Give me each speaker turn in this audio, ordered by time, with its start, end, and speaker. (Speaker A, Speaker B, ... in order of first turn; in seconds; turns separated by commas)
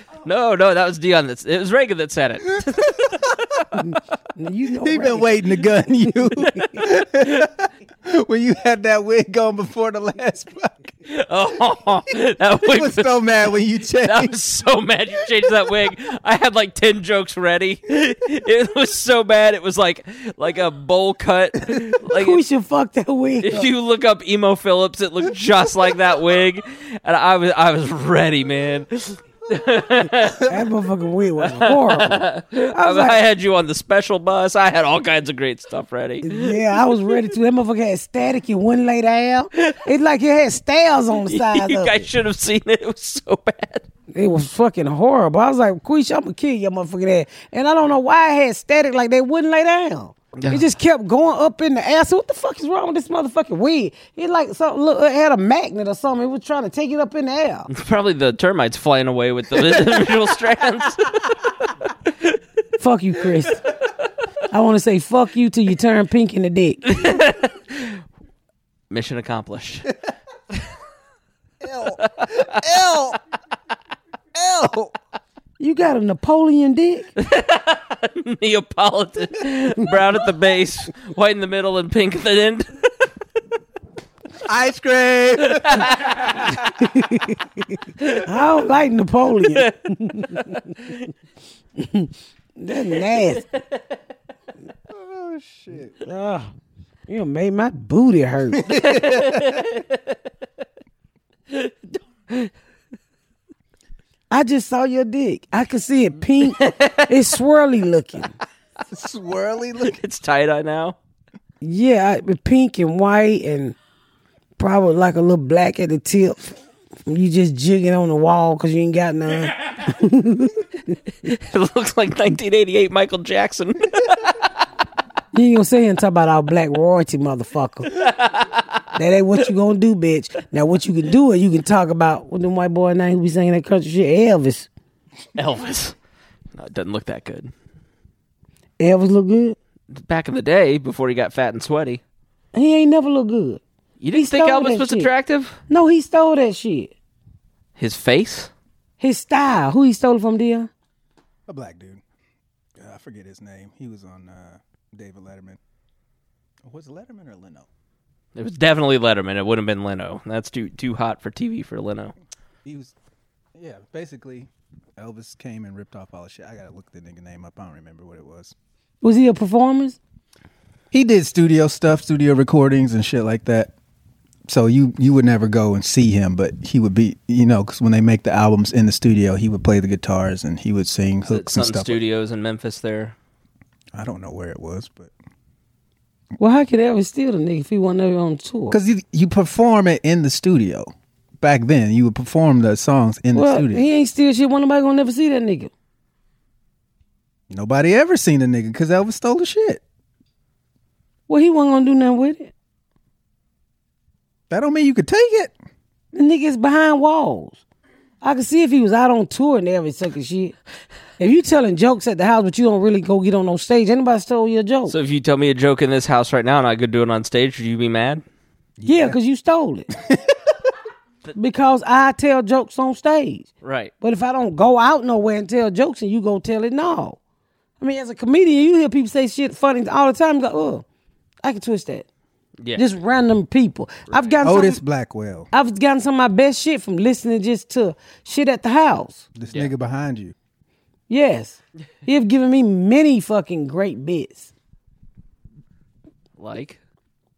Speaker A: 0.2-3.6, Speaker B: 2.6-3.1, Speaker C: 3.8-5.3, Speaker B: 4.8-10.9, Speaker A: 6.6-6.8, Speaker A: 11.1-13.2, Speaker B: 12.6-14.3, Speaker A: 14.0-22.4, Speaker C: 22.1-23.7, Speaker A: 23.4-30.5, Speaker C: 30.4-33.2, Speaker A: 31.4-37.2, Speaker C: 36.2-42.1, Speaker A: 41.3-43.9, Speaker C: 44.1-57.7, Speaker A: 50.4-50.6, Speaker A: 57.7-61.3, Speaker C: 62.8-63.6, Speaker C: 64.5-66.8, Speaker A: 66.8-68.0, Speaker A: 68.9-69.9, Speaker B: 71.6-73.2, Speaker A: 72.0-72.7, Speaker B: 74.3-74.9, Speaker C: 75.6-77.1, Speaker A: 77.2-82.9, Speaker B: 84.4-86.6, Speaker A: 85.5-86.3, Speaker C: 86.7-87.4, Speaker C: 88.2-90.7, Speaker A: 89.5-89.7, Speaker A: 90.3-90.9, Speaker C: 91.8-93.4, Speaker B: 94.9-96.0, Speaker C: 96.0-96.5, Speaker C: 97.1-98.8, Speaker B: 98.6-99.7, Speaker A: 98.7-100.0, Speaker A: 101.5-102.5, Speaker C: 104.3-108.3, Speaker A: 106.5-107.1, Speaker B: 108.9-110.0, Speaker A: 109.8-111.0, Speaker C: 111.6-113.8, Speaker C: 114.6-116.5, Speaker C: 117.1-120.9, Speaker A: 121.2-124.4, Speaker C: 125.3-127.9, Speaker A: 127.9-128.8, Speaker C: 128.9-134.7, Speaker A: 135.3-135.9, Speaker A: 136.5-137.5, Speaker C: 138.8-139.6, Speaker A: 139.9-142.0, Speaker C: 142.5-143.6, Speaker A: 144.0-145.6, Speaker C: 144.1-145.1, Speaker C: 145.7-146.9, Speaker A: 147.8-148.5, Speaker C: 149.0-150.7, Speaker B: 151.5-152.0, Speaker B: 152.8-155.6, Speaker B: 156.6-157.7, Speaker A: 158.3-162.1, Speaker B: 162.6-162.9, Speaker B: 163.6-168.5, Speaker C: 169.0-170.0, Speaker B: 170.9-173.7, Speaker B: 174.5-182.0, Speaker A: 181.2-183.2, Speaker B: 183.9-185.1, Speaker C: 186.4-188.8, Speaker B: 188.7-193.8, Speaker C: 193.3-195.7, Speaker B: 197.5-199.8, Speaker C: 201.3-202.5, Speaker B: 204.5-205.5, Speaker C: 206.1-207.6, Speaker C: 208.2-210.6, Speaker C: 211.2-214.9, Speaker A: 214.9-218.2, Speaker B: 218.8-219.2, Speaker C: 218.8-219.9, Speaker C: 221.3-223.5, Speaker A: 223.6-223.9, Speaker C: 224.0-227.2, Speaker C: 227.8-230.8, Speaker C: 231.4-232.1, Speaker C: 232.8-234.8, Speaker B: 234.4-235.5, Speaker C: 235.5-239.2, Speaker B: 239.3-240.3, Speaker C: 241.1-244.5, Speaker A: 246.4-246.8